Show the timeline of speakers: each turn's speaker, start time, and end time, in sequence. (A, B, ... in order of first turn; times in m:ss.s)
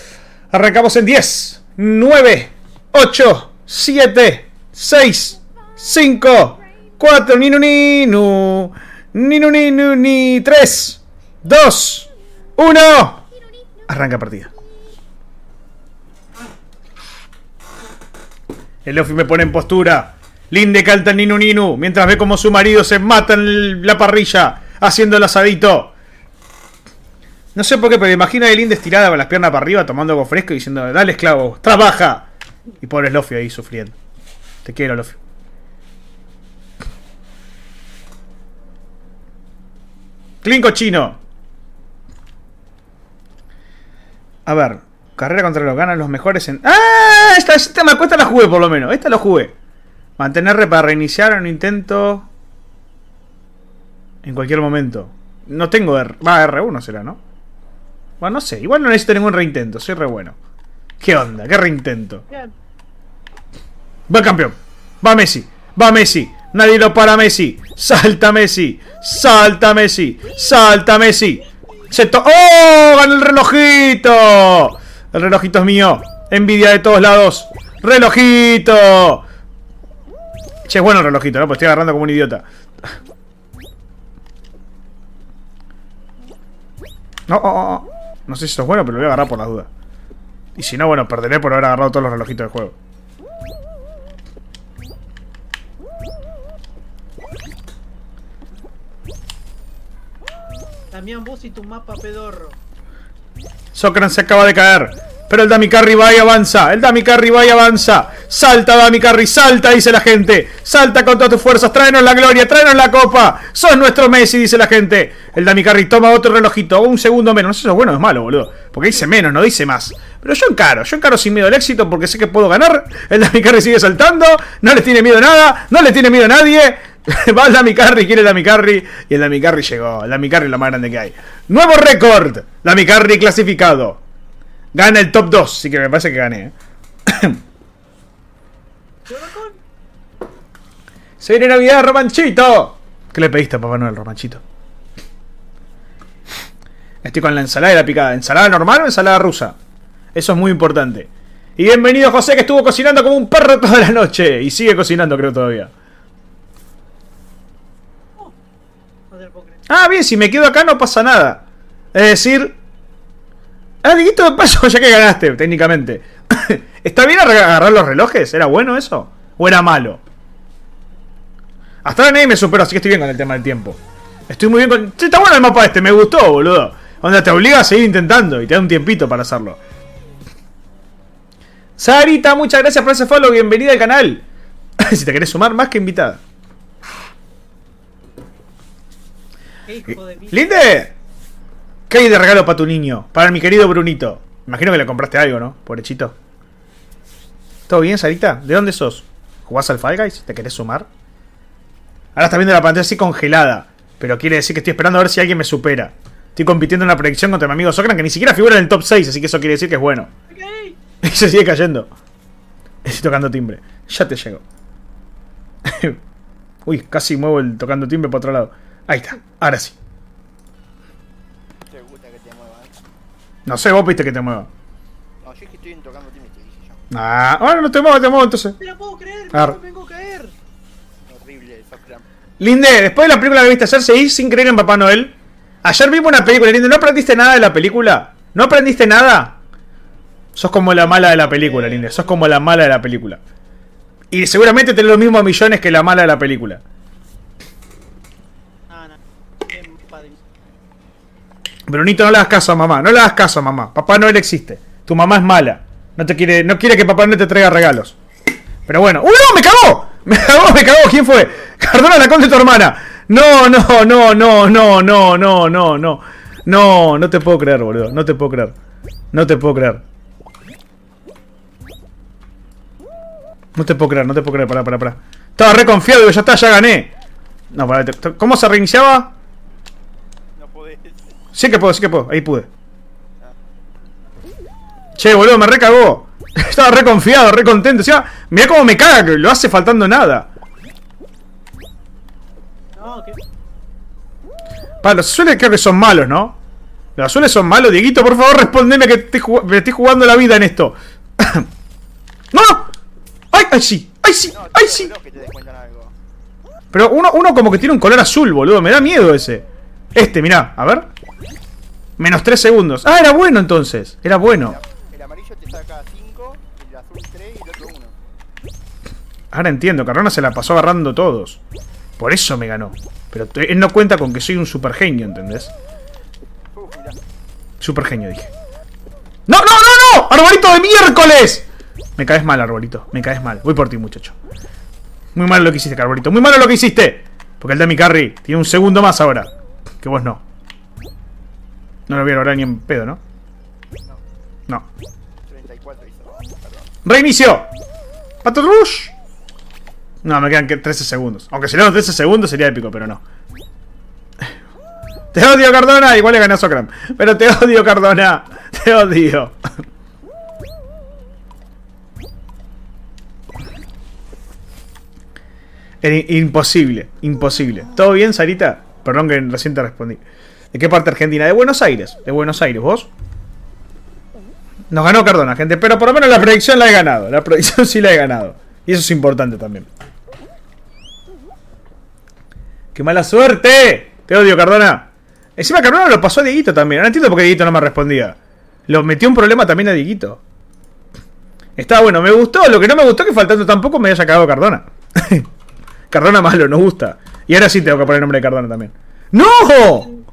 0:00.5-0:13.3 A
0:13.9-0:14.5 A
0:18.8-0:25.9 A
0:27.6-0:32.3 A
0:32.8-0:34.0 A
0:34.6-0:35.2 A
0:40.4-0:41.2 A
0:44.5-0:49.5 A
0:50.2-0:52.3 A
0:54.2-0:57.2 A
0:58.2-1:00.4 A
1:01.0-1:02.2 A
1:04.1-1:19.2 A
1:20.7-1:22.4 A
1:27.3-1:29.7 A
1:30.6-1:32.7 A
1:40.9-1:42.6 B
1:43.7-2:14.0 A
2:14.8-2:16.5 A
2:17.1-2:17.4 A
2:19.1-2:19.6 B
2:21.2-2:24.4 A
2:27.0-2:29.6 A
2:30.2-2:35.7 A
2:39.1-2:39.6 B
2:39.7-2:41.4 A
2:41.9-2:42.5 A
2:43.8-2:50.0 A
2:51.8-2:53.8 A
2:54.3-2:59.6 A
3:01.8-3:04.2 A
3:04.8-3:06.2 A
3:09.7-3:10.6 B
3:10.3-3:10.9 A
3:11.9-3:16.1 A
3:17.7-3:20.9 A
3:22.2-3:30.1 A
3:30.3-3:30.8 B
3:31.0-3:31.9 A
3:32.8-3:34.4 A
3:35.6-3:36.0 A
3:36.7-3:39.8 A
3:41.7-3:42.8 C
3:43.5-3:44.5 A
3:45.2-3:46.8 C
3:46.9-3:48.6 A
3:48.6-3:50.3 B
3:51.1-3:52.0 C
3:52.4-3:55.1 A
3:55.6-3:59.4 A
4:00.4-4:03.2 A
4:00.8-4:02.3 B
4:04.1-4:06.6 A
4:08.7-4:09.0 B
4:09.5-4:10.2 B
4:11.7-4:18.0 A
4:18.7-4:28.5 A
4:29.1-4:29.8 A
4:33.6-4:36.9 A
4:37.5-4:39.1 A
4:40.4-4:41.2 C
4:41.3-4:42.5 A
4:45.0-4:50.3 A
4:52.8-4:53.2 B
4:54.8-4:56.4 A
4:57.0-5:01.5 A
5:02.3-5:02.7 A
5:03.3-5:04.9 A
5:04.3-5:05.9 C
5:06.7-5:10.9 A
5:12.0-5:14.6 A
5:14.3-5:18.0 C
5:19.3-5:21.4 A
5:22.0-5:25.5 A
5:26.5-5:27.0 C
5:27.6-5:28.3 A
5:29.3-5:34.2 A
5:35.2-5:39.3 A
5:39.8-5:40.2 A
5:41.9-5:43.0 A
5:45.3-5:46.7 C
5:46.8-5:47.5 A
5:48.2-5:48.9 A
5:50.0-5:53.0 A
5:55.1-5:59.4 A
6:05.8-6:10.0 A
6:10.5-6:12.9 A
6:14.7-6:19.7 A
6:22.8-6:24.9 A
6:25.4-6:28.2 A
6:28.7-6:30.2 A
6:31.6-6:35.3 A
6:35.9-6:39.9 A